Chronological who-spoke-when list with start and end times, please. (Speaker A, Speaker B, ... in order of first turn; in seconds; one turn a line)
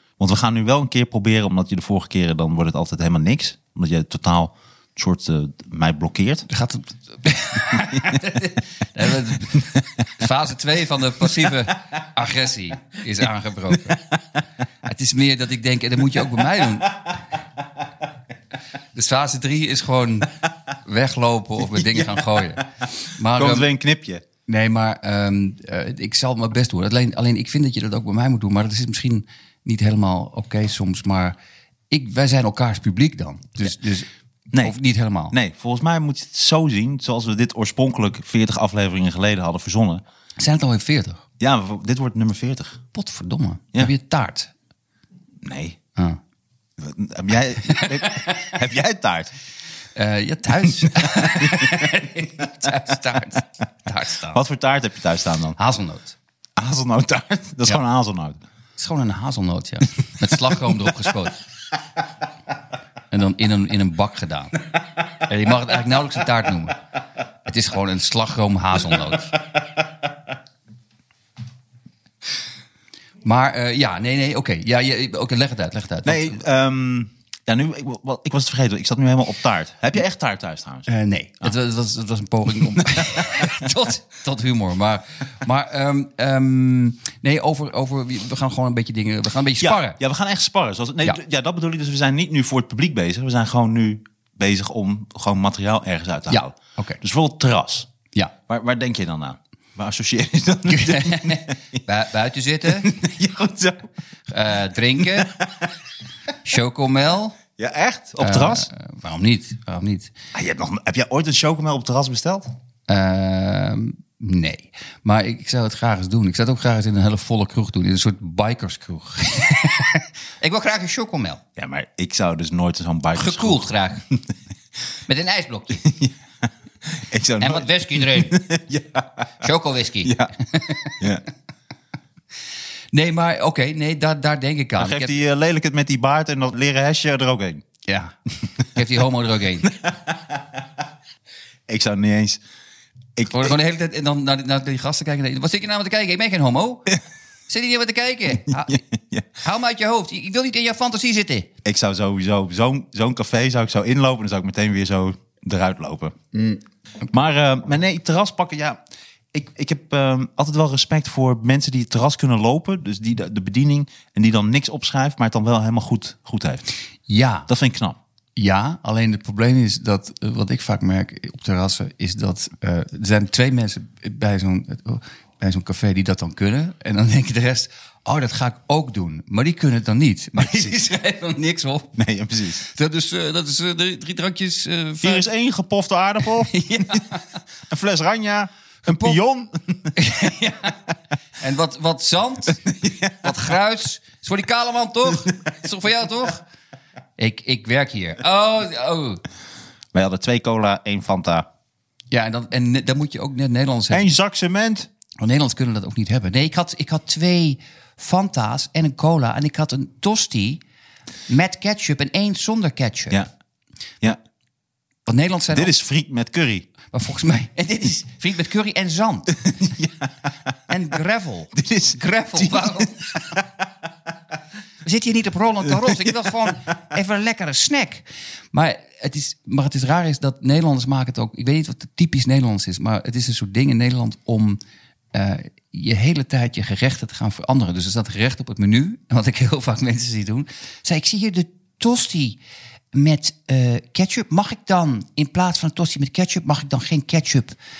Speaker A: 0.2-6.5
Speaker B: 6.5-14.1
Speaker B: 14.8-17.2
Speaker B: 18.9-23.7
Speaker A: 21.6-22.6
Speaker A: 23.3-24.2
Speaker B: 24.5-31.4
Speaker B: 31.9-34.1
Speaker B: 34.6-35.4
Speaker A: 35.3-40.0
Speaker B: 40.4-41.2
Speaker A: 41.4-42.8
Speaker B: 42.9-44.5
Speaker A: 45.4-45.8
Speaker A: 46.8-49.3
Speaker B: 47.7-48.5
Speaker B: 49.9-54.4
Speaker A: 50.9-51.8
Speaker A: 54.3-55.6
Speaker B: 55.6-56.2
Speaker A: 56.6-58.4
Speaker B: 58.8-61.4
Speaker A: 60.5-60.7
Speaker B: 63.1-66.8
Speaker B: 67.4-69.3
Speaker B: 73.2-76.4
Speaker A: 76.0-80.9
Speaker B: 80.9-90.0
Speaker A: 82.8-83.5
Speaker A: 89.6-97.9
Speaker B: 96.3-97.0
Speaker A: 98.5-101.8
Speaker B: 100.7-102.9
Speaker A: 102.7-103.9
Speaker B: 104.3-105.4
Speaker A: 105.0-105.5
Speaker B: 106.4-107.4
Speaker A: 107.6-108.7
Speaker B: 108.2-110.1
Speaker A: 110.3-112.5
Speaker B: 112.9-121.4
Speaker A: 121.6-124.2
Speaker B: 123.2-124.0
Speaker B: 125.1-125.9
Speaker A: 125.8-129.4
Speaker B: 127.4-128.5
Speaker B: 129.4-131.1
Speaker A: 130.0-130.3
Speaker B: 132.9-135.2
Speaker A: 134.8-137.6
Speaker B: 137.9-138.1
Speaker B: 138.7-139.7
Speaker A: 139.8-140.6
Speaker A: 141.7-142.4
Speaker A: 143.2-143.6
Speaker B: 143.2-146.9
Speaker B: 147.5-148.8
Speaker A: 148.5-149.3
Speaker B: 149.4-151.5
Speaker A: 151.7-156.2
Speaker B: 156.3-156.6
Speaker A: 157.1-158.8
Speaker A: 159.3-166.7
Speaker B: 167.1-167.5
Speaker A: 167.5-168.0
Speaker B: 168.4-182.0
Speaker A: 180.4-180.7
Speaker A: 181.9-182.7
Speaker B: 182.6-185.3
Speaker A: 185.0-187.0
Speaker B: 186.4-187.2
Speaker A: 187.7-189.9
Speaker B: 188.8-189.2
Speaker B: 189.9-190.8
Speaker B: 191.4-196.4
Speaker A: 192.7-193.1
Speaker B: 197.2-199.2
Speaker A: 199.9-201.5
Speaker B: 202.1-204.1
Speaker A: 203.9-204.9
Speaker B: 205.2-210.6
Speaker B: 211.3-213.2
Speaker B: 215.1-215.7
Speaker A: 215.5-216.7
Speaker B: 216.9-219.6
Speaker A: 219.4-220.1
Speaker B: 220.7-223.4
Speaker A: 221.5-223.5
Speaker B: 224.8-234.6
Speaker A: 225.8-226.1
Speaker B: 235.1-242.4
Speaker B: 242.9-247.6